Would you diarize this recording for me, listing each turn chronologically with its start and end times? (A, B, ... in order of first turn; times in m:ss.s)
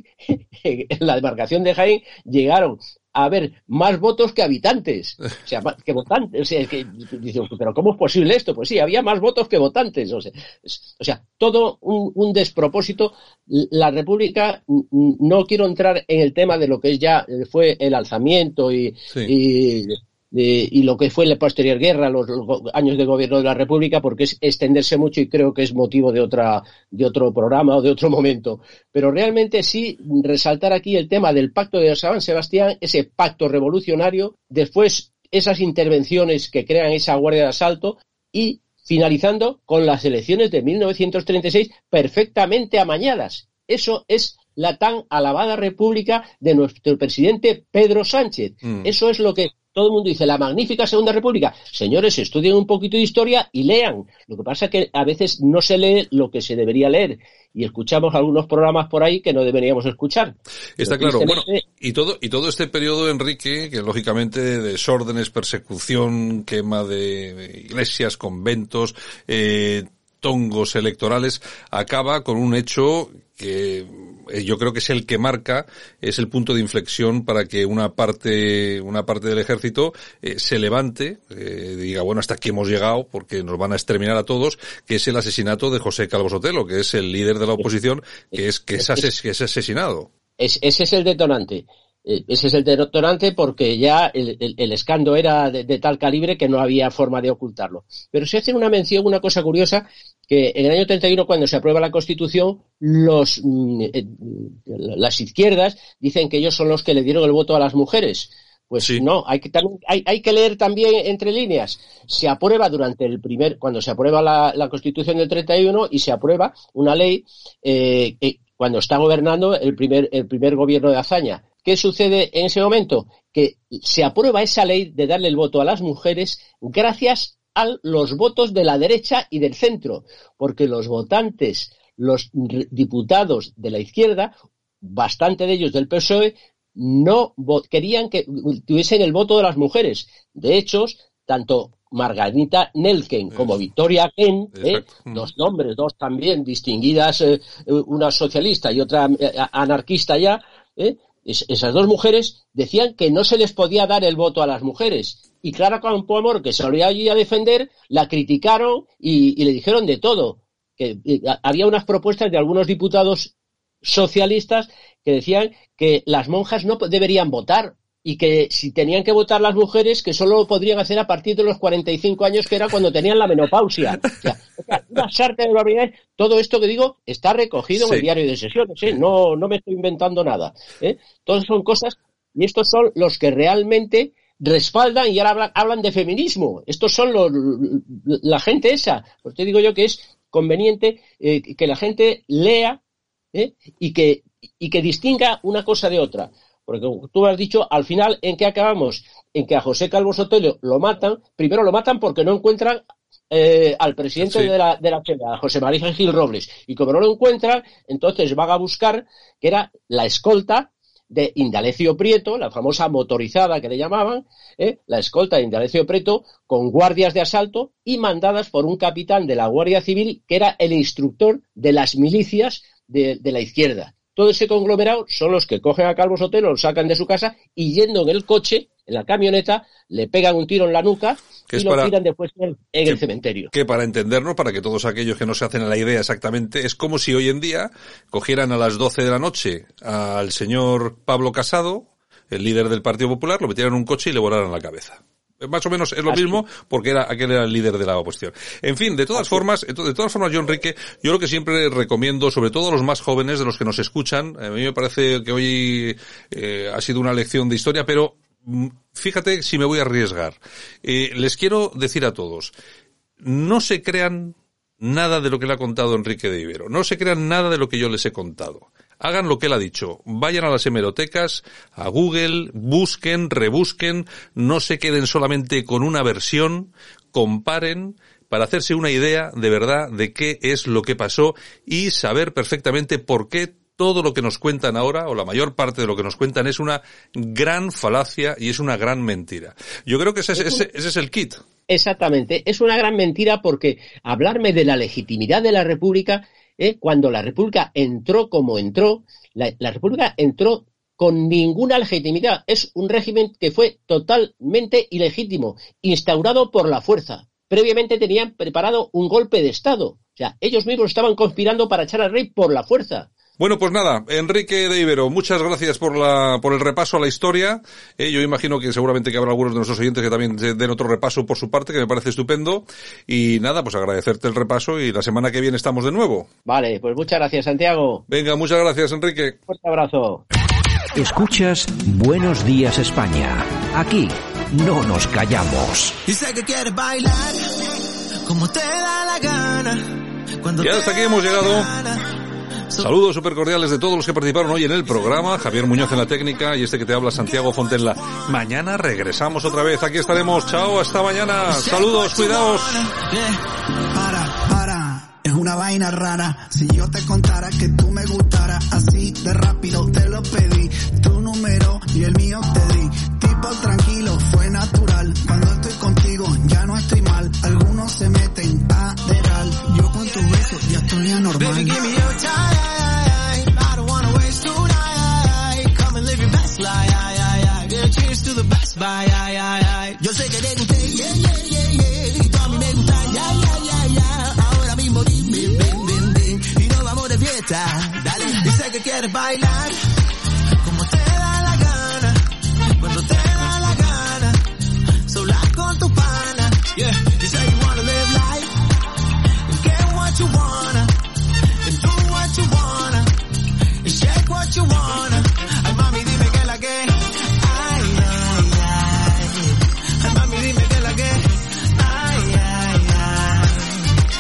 0:00.3-1:01.6 A
0:48.6-0:48.9 B
1:00.8-1:30.1 B
1:28.3-1:29.0 A
1:30.4-3:12.8 A
2:24.6-2:25.3 B
2:57.7-2:58.1 B
3:13.3-3:53.5 A
3:24.2-3:24.5 B
3:51.5-3:51.9 B
3:52.9-4:22.5 B
4:06.1-4:06.4 A
4:09.2-4:09.4 A
4:23.2-4:51.4 B
4:50.4-4:50.6 A
4:51.7-5:13.1 A
5:13.4-5:26.3 B
5:26.5-5:28.0 A
5:28.1-5:29.4 B
5:29.5-5:30.2 A
5:31.0-5:36.0 C
5:36.1-5:37.7 D
5:38.2-5:42.0 D
5:40.6-5:41.8 B
5:42.8-5:52.9 B
5:51.4-5:53.4 D
5:53.9-6:11.8 E
6:09.8-6:29.8 D
6:30.6-6:32.2 D
6:32.8-6:34.4 D
6:35.1-6:38.6 D
6:39.5-6:41.0 D
6:41.6-6:43.1 D
6:43.8-6:53.8 D